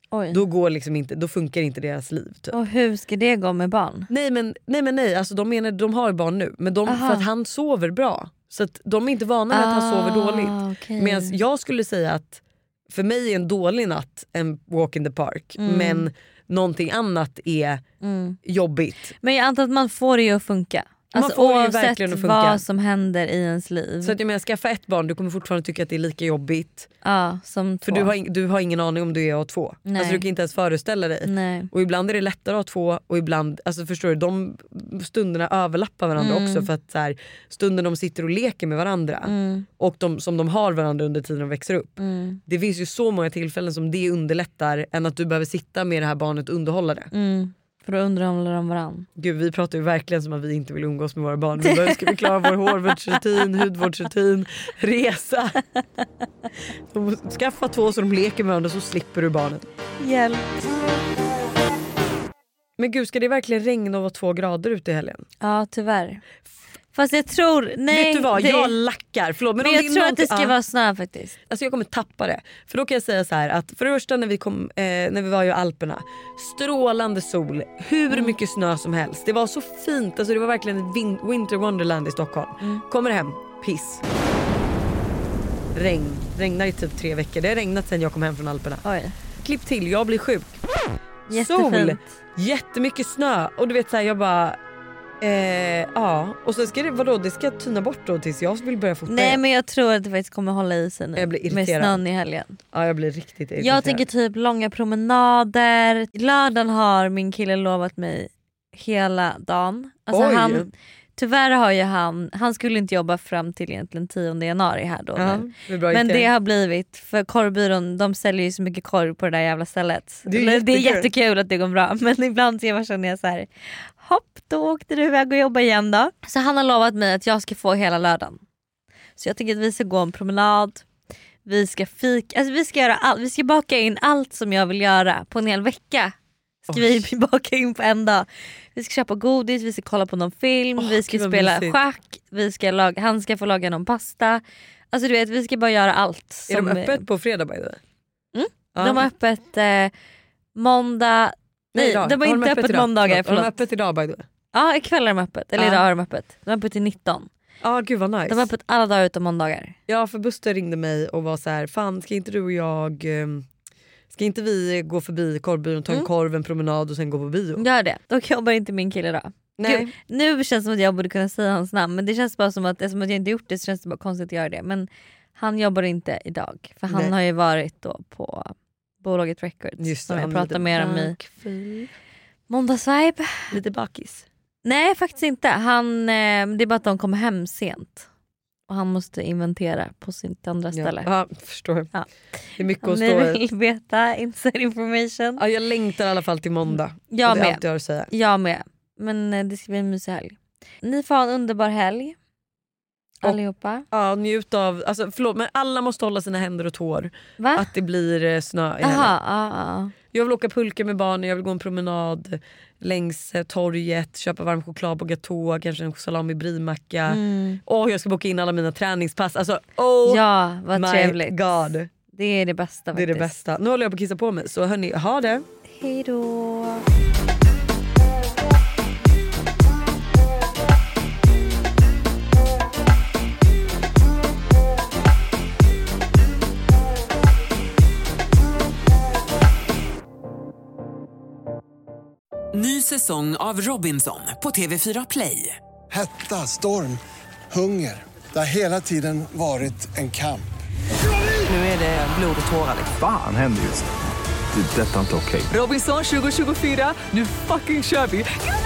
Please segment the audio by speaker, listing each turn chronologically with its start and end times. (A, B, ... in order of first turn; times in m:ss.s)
0:00.1-0:00.4 A
0:00.3-0:02.6 B
0:02.5-0:04.1 A
0:04.1-0:17.8 B
0:06.9-0:07.3 A
0:09.5-0:11.4 A
0:15.6-0:16.1 A
0:18.0-0:18.4 A
0:18.5-0:19.1 B
0:19.2-0:24.2 A
0:21.1-0:22.6 B
0:24.0-0:26.9 B
0:27.0-0:28.1 A
0:27.8-0:47.1 B
0:29.9-0:30.3 A
0:31.2-0:31.7 A
0:36.2-0:36.7 A
0:39.2-0:39.7 A
0:42.0-0:42.4 A
0:47.1-0:49.1 A
0:49.2-0:55.6 B
0:51.6-0:53.2 A
0:56.9-0:59.6 B
1:00.0-1:00.6 A
1:02.8-1:05.2 B
1:05.4-1:06.2 A
1:06.9-1:08.8 A
1:07.9-1:10.6 B
1:09.6-1:11.4 A
1:11.5-1:24.0 B
1:25.8-1:28.8 B
1:28.8-1:29.2 A
1:29.4-1:30.6 B
1:31.3-1:34.6 B
1:31.3-1:32.0 A
1:35.2-1:39.4 B
1:39.1-1:42.6 A
1:41.2-1:42.0 B
1:42.7-1:44.0 B
1:43.6-2:08.4 A
1:50.1-1:50.7 B
1:55.2-1:56.3 B
2:00.3-2:01.1 B
2:09.2-2:10.8 A
2:11.4-2:16.1 A
2:16.7-2:17.1 B
2:16.7-2:27.1 A
2:20.8-2:21.8 B
2:26.5-2:27.8 B
2:28.3-2:29.9 A
2:28.8-2:29.0 B
2:30.6-2:33.6 A
2:31.7-2:34.2 B
2:34.5-2:37.3 A
2:35.6-2:35.8 B
2:37.6-2:38.5 B
2:38.3-2:39.8 A
2:39.9-2:43.5 B
2:44.1-2:47.6 B
2:47.6-3:01.2 A
2:49.6-2:49.9 B
2:56.9-2:57.2 B
2:59.8-3:01.9 B
3:02.5-3:03.6 A
3:03.5-3:04.3 B
3:04.6-3:08.1 A
3:08.7-3:11.1 A
3:10.7-3:11.9 B
3:11.9-3:15.4 A
3:12.6-3:13.4 B
3:15.4-3:18.1 B
3:17.1-3:22.2 A
3:23.2-3:23.9 A
3:23.9-3:29.2 B
3:27.4-3:27.7 A
3:28.8-3:29.9 A
3:30.1-3:41.9 B
3:37.1-3:37.6 A
3:40.0-3:41.4 A
3:42.1-3:43.3 A
3:42.9-3:45.4 B
3:45.7-3:46.9 A
4:02.5-4:05.6 C
4:05.9-4:10.5 D
4:11.5-4:13.0 C
4:13.0-4:13.9 E
4:14.5-4:15.5 E
4:15.5-4:18.3 C